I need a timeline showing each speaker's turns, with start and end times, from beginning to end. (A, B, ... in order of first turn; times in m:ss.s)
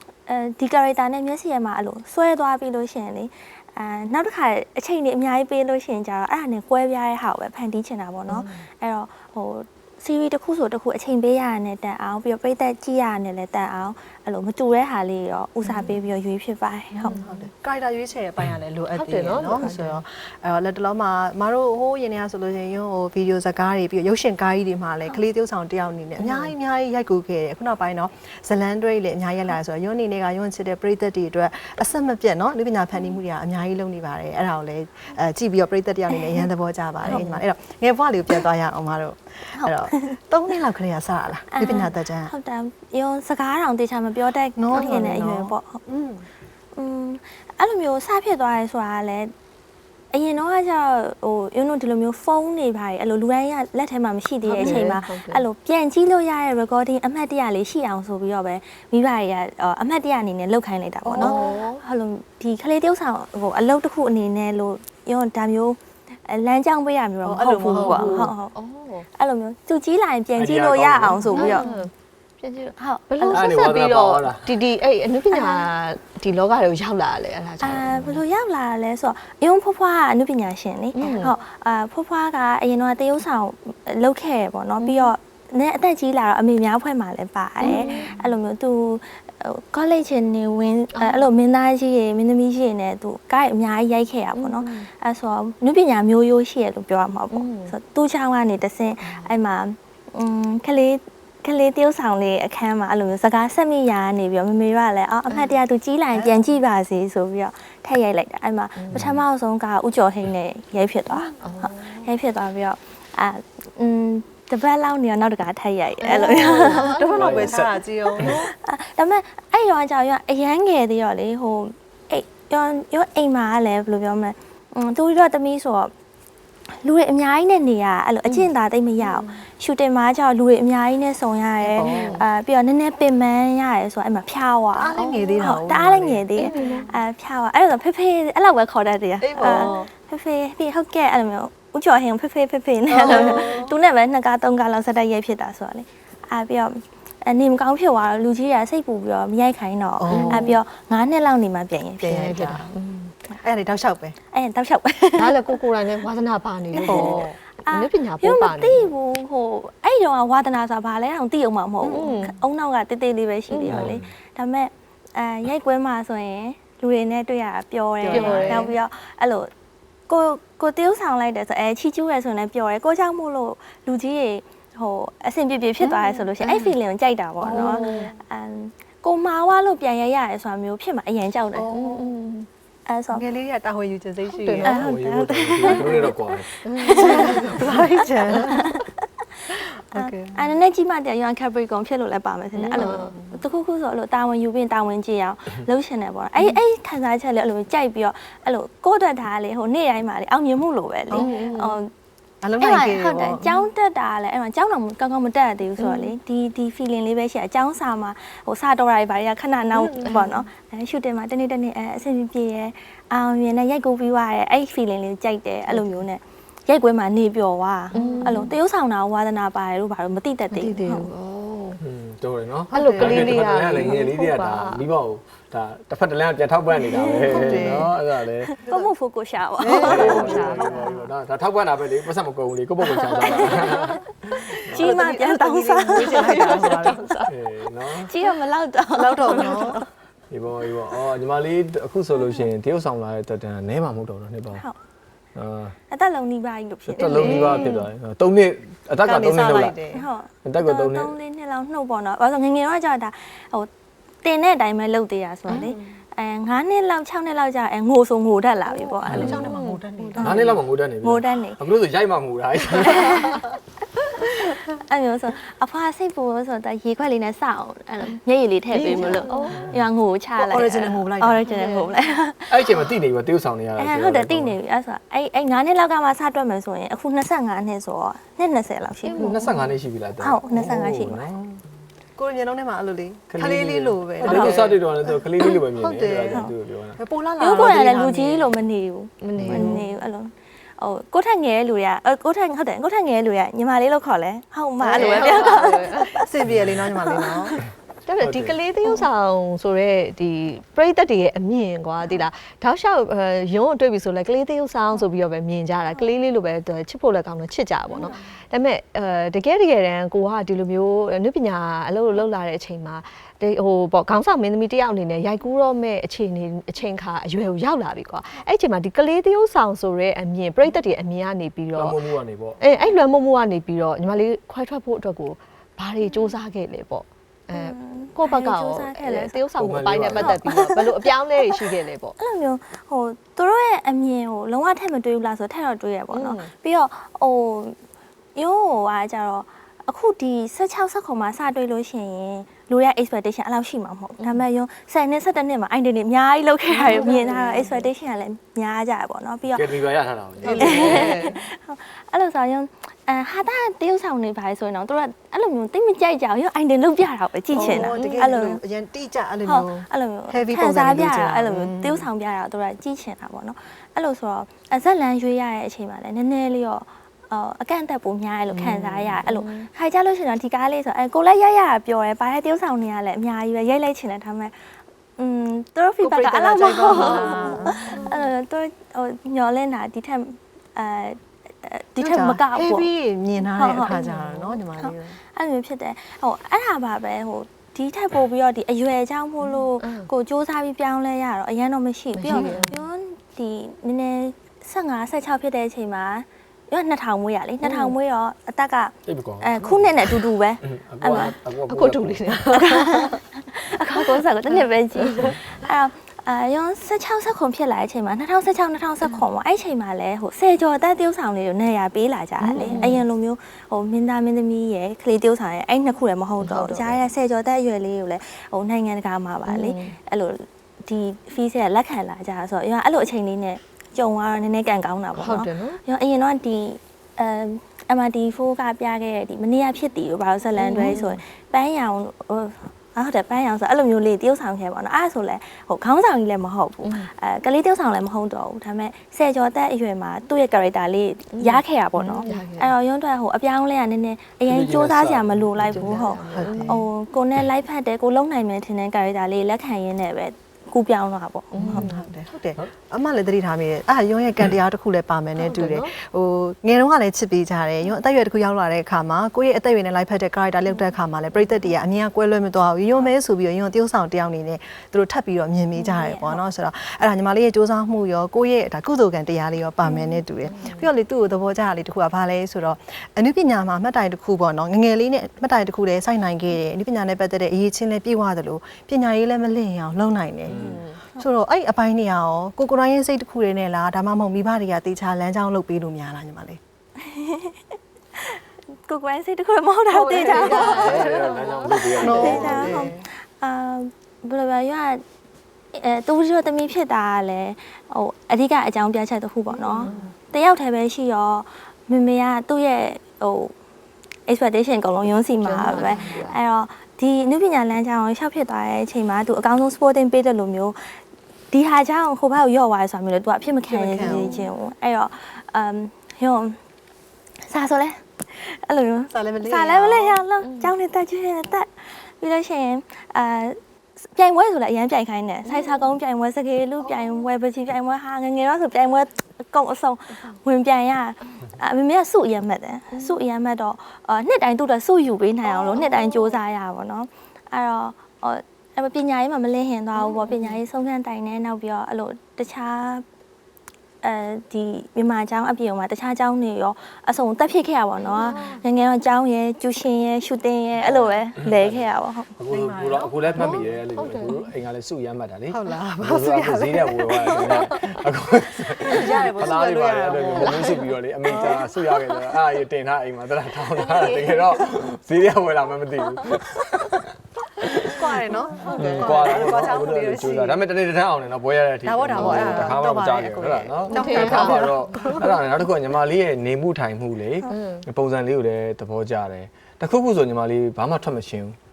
0:00.3-0:17.2 A
0:08.3-0:08.6 B
0:15.7-0:15.9 B
0:16.9-0:42.3 C
0:17.0-0:17.5 B
0:18.9-0:20.0 B
0:26.2-0:26.5 B
0:36.2-0:36.4 A
0:37.0-0:37.4 B
0:39.6-0:40.2 A
0:41.5-0:45.8 A
0:44.6-0:46.3 C
0:44.7-0:45.2 B
0:46.8-0:49.3 A
0:50.1-1:08.6 A
0:54.4-0:55.5 B
0:54.6-0:54.9 C
1:01.0-1:01.6 C
1:01.2-1:01.8 B
1:07.2-1:08.3 C
1:07.6-1:09.1 B
1:09.2-1:11.7 A
1:10.4-1:11.6 D
1:11.3-1:18.2 B
1:12.8-1:13.5 A
1:13.3-1:14.5 D
1:15.3-1:15.7 A
1:17.6-1:57.5 A
1:21.0-1:21.3 B
1:24.8-1:25.1 B
1:27.6-1:28.2 B
1:27.6-1:28.0 C
1:30.9-1:31.3 B
1:34.3-1:34.9 B
1:37.3-1:37.8 B
1:39.0-1:39.3 B
1:45.3-1:45.6 B
1:46.1-1:46.4 C
1:48.8-1:49.1 B
1:48.9-1:49.2 D
1:51.4-1:52.1 B
1:56.0-1:57.5 B
1:56.3-1:58.3 D
1:57.1-1:58.5 C
1:58.2-2:05.9 A
2:06.8-2:32.2 A
2:09.0-2:09.4 B
2:11.7-2:12.1 C
2:11.8-2:12.2 B
2:14.7-2:16.7 C
2:15.0-2:15.4 B
2:16.4-2:17.0 B
2:19.2-2:19.9 B
2:19.4-2:19.9 C
2:22.9-2:23.8 C
2:30.0-2:30.6 C
2:30.1-2:30.6 B
2:32.0-2:32.7 C
2:32.1-2:33.1 B
2:33.4-2:34.2 C
2:34.3-2:35.4 A
2:35.2-2:38.9 B
2:36.7-2:49.5 A
2:36.8-2:37.3 C
2:41.8-2:42.1 C
2:41.9-2:42.3 B
2:43.5-2:44.0 B
2:43.7-2:44.1 D
2:48.0-2:48.7 C
2:48.1-2:48.7 B
2:50.1-3:01.8 A
2:55.8-2:56.7 B
2:57.4-2:58.2 B
2:57.4-2:58.1 C
3:01.6-3:02.0 C
3:01.7-3:02.5 B
3:02.9-3:03.2 A
3:03.1-3:04.8 C
3:04.3-3:04.8 B
3:04.6-3:07.6 A
3:04.8-3:06.5 D
3:06.6-3:07.8 B
3:06.9-3:08.7 C
3:08.5-3:08.8 A
3:09.9-3:10.4 C
3:10.0-3:21.9 A
3:12.6-3:13.2 B
3:12.8-3:13.3 C
3:21.1-3:21.8 B
3:22.4-3:23.5 C
3:22.6-3:41.1 A
3:25.8-3:26.1 B
3:29.8-3:30.4 B
3:35.7-3:36.0 B
3:37.9-3:38.6 B
3:38.0-3:38.4 C
3:40.5-3:41.8 B
3:41.8-3:48.5 D
3:42.7-3:44.8 B
3:42.7-3:43.9 C
3:46.8-3:47.8 A
3:47.3-3:47.9 C
3:48.4-3:50.5 A
3:49.6-3:51.0 C
3:49.6-3:51.0 B
3:49.8-3:55.0 D
3:53.2-3:53.8 A
3:54.7-3:56.6 A
3:54.7-3:57.0 C
3:55.9-3:57.3 B
3:57.3-3:58.1 D
3:58.0-3:59.8 A
3:58.9-3:59.9 C
4:00.3-4:04.6 D
4:05.4-4:05.8 D
4:05.9-4:07.6 A
4:06.9-4:09.8 D
4:07.1-4:07.8 B
4:07.1-4:07.5 C
4:09.0-4:10.1 C
4:09.9-4:13.7 A
4:10.4-4:11.1 D
4:14.2-4:19.4 A
4:15.5-4:15.9 B
4:18.7-4:20.4 B
4:19.0-4:20.5 C
4:19.1-4:19.5 D
4:20.2-4:21.6 A
4:20.2-4:23.4 D
4:22.7-4:23.4 A
4:24.3-4:32.9 A
4:28.7-4:29.4 C
4:28.7-4:29.7 B
4:30.4-4:31.5 C
4:31.5-4:31.9 B
4:32.5-4:34.6 D
4:33.8-4:39.5 A
4:39.0-4:39.5 B
4:39.2-4:41.6 D
4:40.2-4:41.3 A
4:42.2-4:44.6 C
4:43.3-4:47.0 D
4:44.3-4:44.6 A
4:44.3-4:44.8 B
4:45.6-4:46.4 C
4:47.0-4:48.5 C
4:47.4-4:56.3 A
4:49.2-4:49.9 B
4:49.4-4:49.7 D
4:49.4-4:49.8 C
4:54.8-4:55.6 C
4:54.9-4:56.2 B
4:56.2-4:57.6 C
4:56.5-4:56.8 D
4:57.0-4:57.6 A
4:58.1-5:22.0 B
4:58.2-4:58.6 D
5:08.0-5:08.2 A
5:21.8-5:22.6 D
5:22.6-5:32.2 B
5:27.5-5:29.4 A
5:29.6-5:30.5 D
5:30.1-5:30.8 A
5:32.2-5:37.8 A
5:36.1-5:36.5 B
5:38.4-5:49.7 A
5:44.2-5:44.4 B
5:46.7-5:47.8 B
5:46.8-5:47.7 C
5:49.5-5:51.1 D
5:50.4-5:51.0 C
5:50.4-5:51.4 B
5:50.5-5:58.6 A
5:57.5-6:02.1 C
5:57.5-5:58.3 B
5:59.5-6:22.9 A
6:08.5-6:09.7 B
6:16.0-6:18.1 C
6:16.9-6:18.3 B
6:22.0-6:25.2 C
6:23.4-6:24.0 A
6:23.9-6:24.6 B
6:24.8-6:41.3 A
6:29.8-6:30.1 B
6:32.1-6:32.8 B
6:32.3-6:32.6 C
6:37.6-6:38.0 B
6:39.1-6:40.1 D
6:40.6-6:42.3 D
6:41.7-6:43.1 B
6:42.5-7:31.9 A
6:52.4-6:53.0 B
6:56.4-6:57.0 B
6:59.4-7:00.0 B
7:05.2-7:05.8 B
7:10.6-7:11.2 B
7:16.8-7:17.1 B
7:21.3-7:22.7 B
7:24.5-7:25.9 D
7:25.7-7:26.8 B
7:25.8-7:26.8 C
7:31.5-7:32.1 B
7:31.6-8:06.6 C
7:35.4-7:35.9 B
7:45.8-7:46.4 A
7:49.9-7:50.2 A
7:50.4-7:50.9 B
8:00.5-8:00.8 D
8:00.5-8:01.0 B
8:07.0-8:07.6 A
8:08.2-8:15.0 A
8:09.9-8:12.9 B
8:10.5-8:12.9 D
8:12.0-8:13.0 C
8:15.7-8:23.5 A
8:19.6-8:20.1 B
8:19.7-8:20.0 C
8:24.3-8:31.0 A
8:25.4-8:26.4 B
8:31.5-8:36.6 A
8:33.7-8:34.4 C
8:34.0-8:34.5 B
8:37.5-9:03.0 A
8:39.1-8:40.2 C
8:40.4-8:40.8 B
8:45.4-8:45.9 B
8:52.9-8:53.2 B
8:55.4-8:56.4 B
9:00.0-9:00.6 B
9:04.0-9:12.3 A
9:08.0-9:08.6 B
9:10.9-9:11.9 D
9:12.4-9:27.0 D
9:12.5-9:13.6 C
9:13.4-9:14.5 B
9:15.5-9:17.7 C
9:18.9-9:20.6 C
9:20.2-9:21.6 B
9:23.8-9:24.5 B
9:27.6-9:27.9 D
9:27.8-9:30.6 C
9:28.5-9:29.4 B
9:28.7-9:41.6 D
9:31.8-9:35.2 C
9:32.1-9:32.6 B
9:33.9-9:35.2 B
9:37.5-9:37.8 B